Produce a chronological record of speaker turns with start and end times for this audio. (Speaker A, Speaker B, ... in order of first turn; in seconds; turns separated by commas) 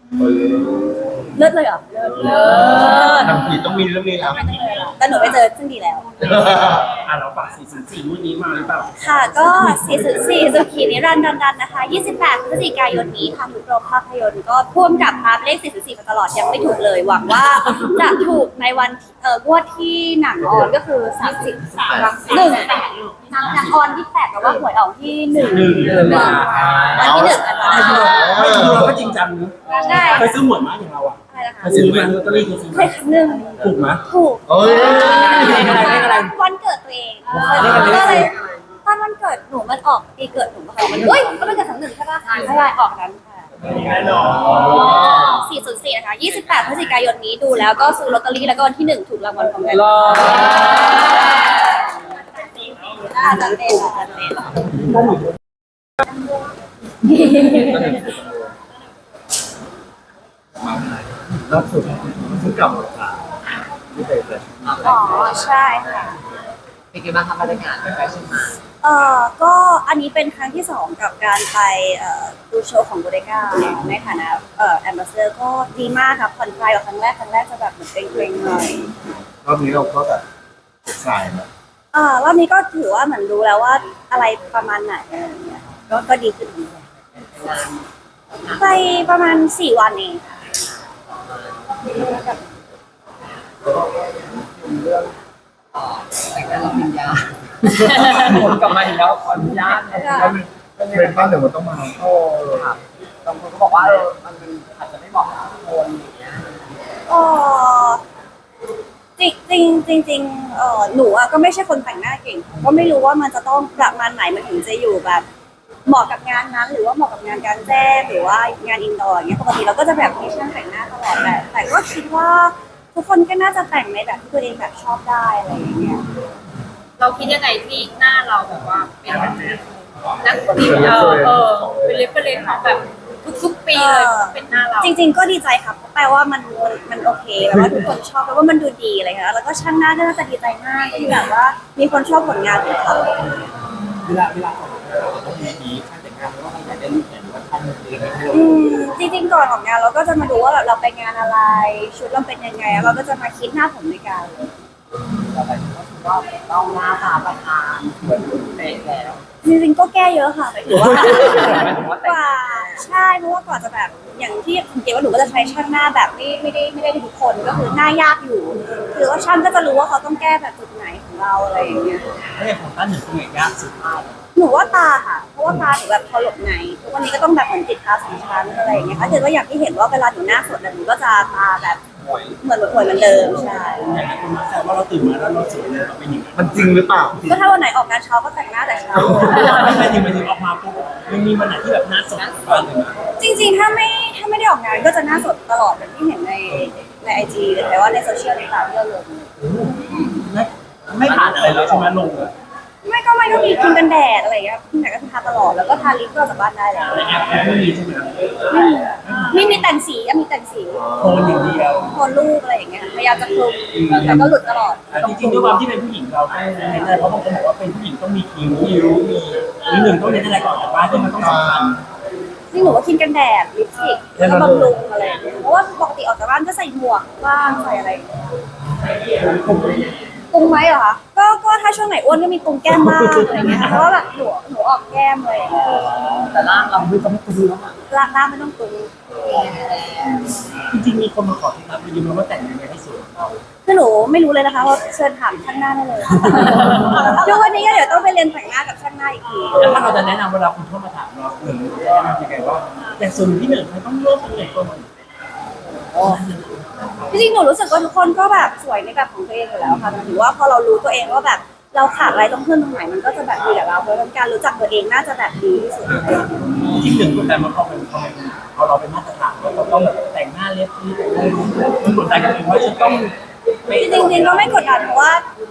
Speaker A: 0.2-1.2, Speaker B: 1.3-3.5, Speaker A: 2.0-4.5, Speaker C: 2.3-2.8, Speaker B: 4.2-6.1, Speaker A: 6.2-6.9, Speaker D: 6.4-10.2, Speaker B: 9.0-28.4, Speaker A: 21.6-22.4, Speaker E: 21.7-23.7, Speaker A: 24.4-24.6, Speaker D: 25.3-33.0, Speaker C: 25.7-28.0, Speaker A: 26.4-27.5, Speaker A: 28.0-29.1, Speaker C: 29.6-30.3, Speaker B: 29.7-30.4, Speaker B: 31.3-31.8, Speaker A: 31.7-32.5, Speaker B: 32.7-43.5, Speaker D: 33.5-34.0, Speaker A: 34.5-35.6, Speaker D: 34.7-36.3, Speaker D: 37.3-38.3, Speaker C: 37.3-38.6, Speaker C: 41.1-41.4, Speaker C: 42.2-42.6, Speaker D: 43.8-44.8, Speaker A: 44.4-45.4, Speaker C: 44.5-45.2, Speaker E: 44.8-45.4, Speaker B: 44.9-50.3, Speaker C: 49.9-50.7, Speaker B: 51.1-51.6, Speaker B: 52.9-54.5, Speaker D: 54.8-55.2, Speaker B: 57.2-57.7, Speaker A: 57.5-58.4, Speaker A: 60.6-63.2, Speaker A: 63.9-64.9, Speaker C: 64.6-66.0, Speaker B: 64.8-66.2, Speaker C: 66.9-68.6, Speaker B: 68.8-79.0, Speaker A: 79.4-80.2, Speaker A: 80.8-81.5, Speaker B: 81.9-86.8, Speaker C: 87.2-87.9, Speaker C: 88.5-88.9, Speaker B: 88.5-90.4, Speaker C: 91.2-91.9, Speaker B: 91.9-92.4, Speaker C: 94.3-95.2, Speaker C: 95.7-101.3, Speaker B: 99.9-100.4, Speaker A: 100.1-102.7, Speaker C: 102.3-106.6, Speaker B: 107.1-108.0, Speaker B: 109.2-115.2, Speaker B: 115.8-126.0, Speaker E: 127.0-129.6, Speaker E: 130.2-135.0, Speaker A: 130.5-132.1, Speaker B: 133.7-143.1, Speaker D: 144.0-148.6, Speaker B: 148.3-154.5, Speaker C: 155.3-159.2, Speaker B: 159.4-172.0, Speaker C: 160.7-162.9, Speaker D: 172.3-174.1, Speaker B: 174.3-181.8, Speaker C: 182.0-182.4, Speaker B: 182.4-184.0, Speaker D: 183.7-187.3, Speaker A: 186.3-187.2, Speaker B: 187.2-189.9, Speaker A: 188.9-189.2, Speaker D: 189.2-193.0, Speaker C: 192.1-192.7, Speaker B: 193.2-199.3, Speaker D: 199.4-202.3, Speaker B: 202.8-207.0, Speaker D: 206.9-208.3, Speaker B: 208.5-211.0, Speaker D: 209.0-209.7, Speaker A: 210.8-211.2, Speaker D: 211.0-212.0, Speaker B: 211.9-215.6, Speaker D: 213.7-214.3, Speaker D: 214.9-221.8, Speaker A: 221.0-221.8, Speaker B: 222.5-228.1, Speaker D: 224.2-224.5, Speaker A: 224.2-224.7, Speaker C: 229.2-229.9, Speaker B: 230.3-235.9, Speaker C: 235.7-237.8, Speaker B: 237.9-238.9, Speaker C: 239.3-240.3, Speaker D: 240.3-243.4, Speaker B: 243.7-250.1, Speaker D: 246.3-247.1, Speaker C: 246.7-247.3, Speaker D: 249.5-254.9, Speaker C: 255.7-256.2, Speaker D: 256.0-256.5, Speaker B: 257.1-266.3, Speaker D: 265.9-273.1, Speaker D: 273.7-274.5, Speaker B: 273.7-275.2